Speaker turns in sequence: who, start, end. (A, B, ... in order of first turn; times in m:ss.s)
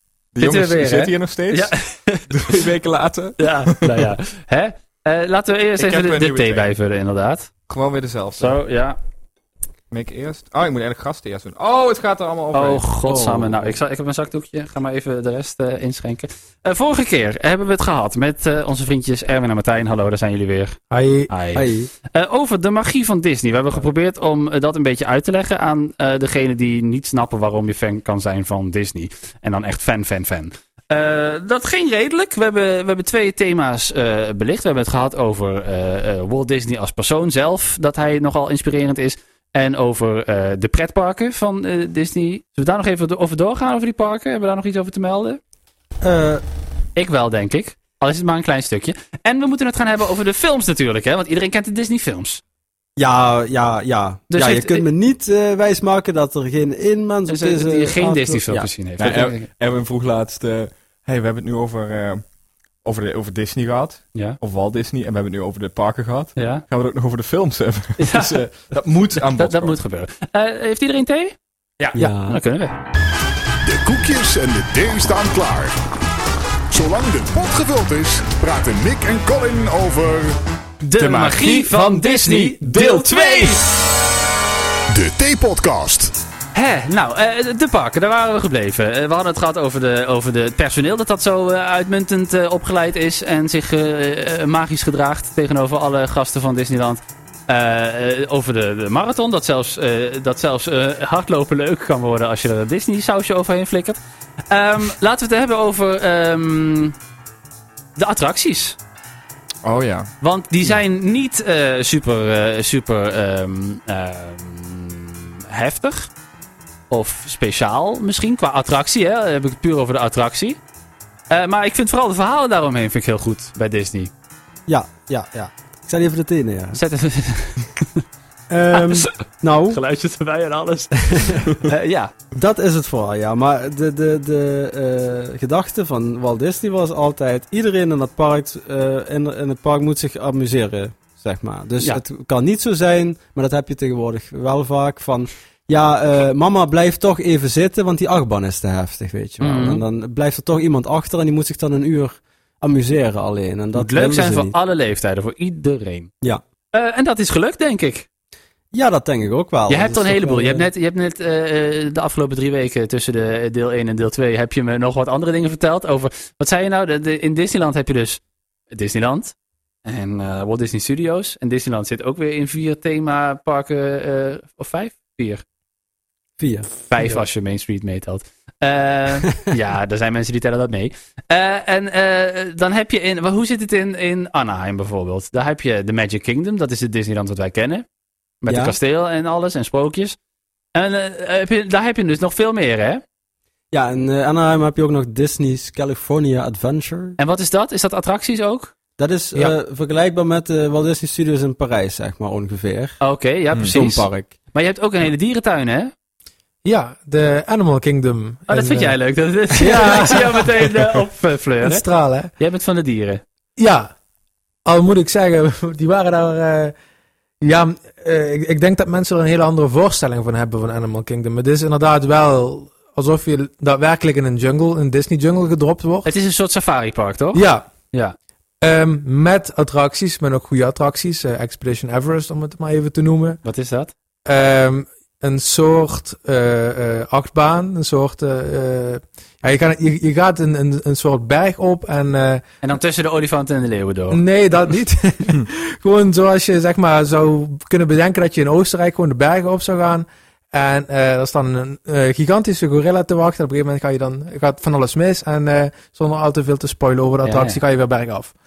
0:00.3-0:01.8 A
0:00.4-0:02.7 B
0:02.3-0:04.1 A
0:03.4-0:07.5 B
0:05.8-0:06.7 A
0:07.7-0:08.6 A
0:08.4-0:09.0 B
0:09.9-0:12.8 A
0:12.5-0:20.8 B
0:13.0-0:13.8 C
0:20.9-0:21.3 D
0:21.3-0:45.4 B
0:21.6-0:21.9 C
0:46.0-0:46.4 C
0:47.0-0:52.4 B
0:53.0-0:59.2 C
0:54.3-0:54.9 B
0:57.3-0:59.5 B
0:59.0-1:02.2 A
1:02.8-1:09.8 A
1:06.4-1:06.6 B
1:08.0-1:08.4 B
1:09.2-1:12.8 B
1:12.0-1:12.4 C
1:13.6-1:15.7 E
1:16.7-1:20.4 E
1:20.8-1:23.6 B
1:21.0-1:23.6 A
1:24.9-1:26.2 E
1:26.5-1:44.0 B
1:44.5-1:47.0 B
1:48.0-1:48.8 B
1:49.6-1:50.1 A
1:50.2-1:56.1 B
1:56.9-2:00.6 B
2:01.3-2:04.1 B
2:04.7-2:06.8 C
2:06.7-2:08.0 B
2:08.5-2:09.8 C
2:08.7-2:09.1 B
2:09.7-2:12.1 B
2:11.1-2:11.5 C
2:12.3-2:34.6 C
2:29.4-2:29.8 B
2:33.7-2:36.1 B
2:36.7-2:38.1 B
2:38.7-2:40.6 C
2:39.7-2:48.2 B
2:48.7-2:49.3 B
2:49.8-2:55.4 B
2:56.4-2:57.2 C
2:56.8-3:07.8 B
3:08.4-3:10.2 B
3:08.5-3:08.8 C
3:10.8-3:13.0 B
3:13.7-3:17.2 C
3:17.2-3:18.7 B
3:19.0-3:23.0 C
3:23.0-3:25.9 B
3:23.7-3:24.3 C
3:26.6-3:29.0 D
3:28.5-3:31.8 B
3:29.5-3:30.5 D
3:29.6-3:30.2 C
3:31.6-3:32.3 D
3:32.4-3:33.2 B
3:33.6-3:33.9 D
3:34.6-3:36.7 D
3:37.4-3:46.1 D
3:46.0-3:48.2 B
3:47.3-3:47.7 D
3:48.6-3:53.4 D
3:53.4-3:53.9 B
3:54.3-4:02.4 D
4:02.6-4:04.2 B
4:04.1-4:18.3 D
4:17.2-4:17.6 B